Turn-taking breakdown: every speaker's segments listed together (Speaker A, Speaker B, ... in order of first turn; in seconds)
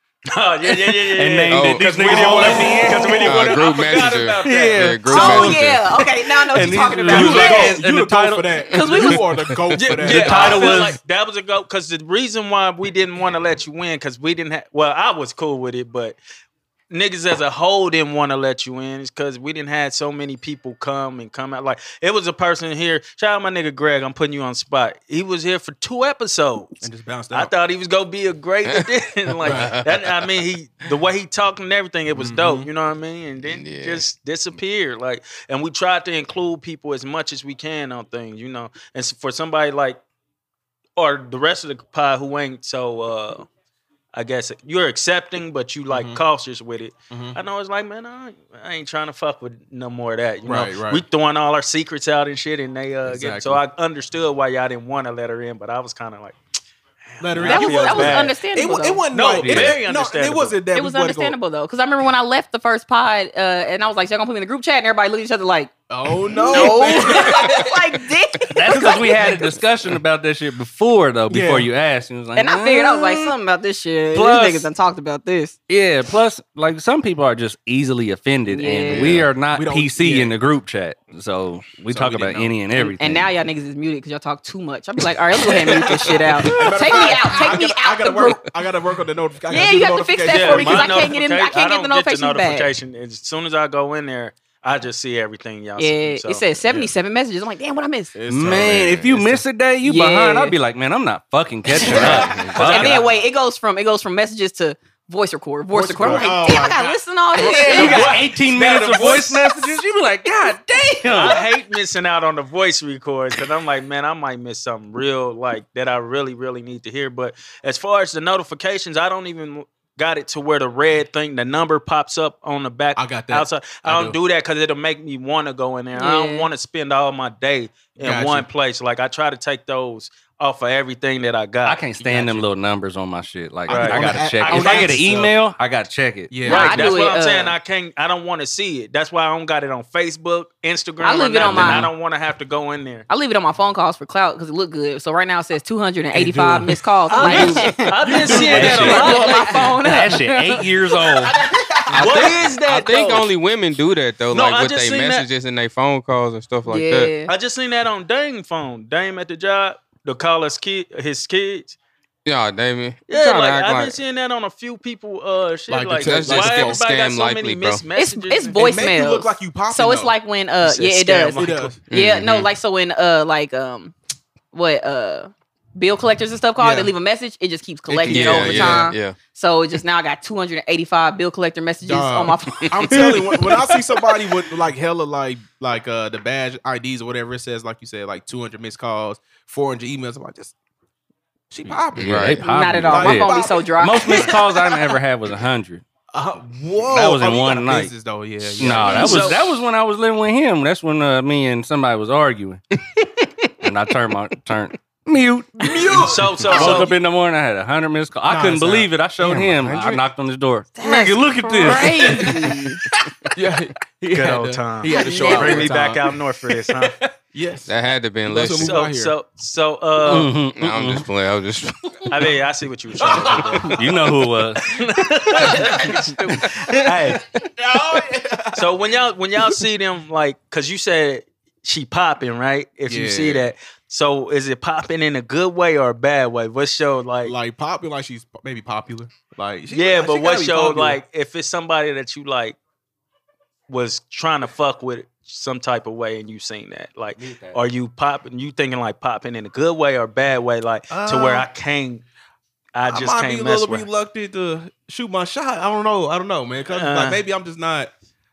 Speaker A: 0.3-5.3, 9.8-16.2, 16.9-40.0, 41.0-43.5, 44.1-56.4, 57.1-58.3, 59.1-60.6, 90.3-96.5, 102.0-103.0, 107.6-109.5, 111.1-132.4, 133.7-135.2, 136.4-143.1, 147.1-149.7, 151.9-153.3, 154.3-155.3, 157.3-161.8, 163.1-168.9, 171.3-171.8, 198.8-199.6, 206.0-206.9, 214.1-216.9, 218.6-220.3, 222.1-224.1, 224.7-227.2, 228.5-237.3, 239.7-242.6, 243.7-252.0, 252.7-253.9, 256.7-257.2
Speaker B: 0.7-3.7, 4.4-5.7, 6.5-8.7, 9.9-10.9, 59.4-59.8, 68.5-73.3, 74.1-74.7, 75.7-83.3, 98.3-103.1, 107.5-111.4, 131.6-136.4, 141.4-141.9, 148.2-151.3, 191.7-195.8, 196.8-202.6, 203.6-212.1, 220.0-221.1, 223.7-224.7
Speaker C: 1.5-2.6, 3.2-5.8, 8.9-9.8, 29.4-29.8, 33.4-34.1, 78.9-79.3, 151.9-157.1, 162.2-164.0, 165.9-167.8, 171.9-172.5, 178.1-179.2, 192.0-192.4, 217.7-218.8, 220.5-222.2
Speaker D: 2.0-3.2, 7.0-10.8, 26.8-27.5, 29.4-29.8, 32.1-32.7, 45.9-46.2, 47.1-47.4, 50.4-51.0, 53.0-53.6, 57.2-61.4, 65.9-67.8, 68.7-69.4, 71.3-71.7, 79.4-80.4, 81.9-82.7, 85.4-91.1, 98.1-99.4, 101.9-102.6, 105.7-108.2, 123.0-124.2, 128.0-128.5, 132.0-132.4, 133.7-135.3, 136.3-136.9, 146.1-149.8, 151.1-152.5, 165.7-166.8, 168.5-171.9, 176.6-176.9, 177.9-178.9, 181.8-190.5, 191.5-194.4, 196.1-199.4, 205.6-206.9, 208.3-210.0, 211.6-217.7, 218.2-219.1, 223.0-224.0, 224.8-228.8, 232.9-233.5, 237.2-241.0, 250.9-251.5, 252.9-257.9
Speaker E: 5.0-7.8, 8.7-9.2, 57.4-59.1, 60.7-65.7, 66.2-69.3, 72.3-75.5, 78.5-79.1, 82.8-88.5, 89.5-92.7, 95.8-98.2, 99.8-100.5, 101.8-108.0, 111.0-111.2, 125.9-126.5, 136.4-137.6, 141.0-141.9, 143.1-150.8, 156.7-157.3, 167.9-173.9, 174.5-183.5, 192.4-194.4, 210.8-212.8, 214.8-215.7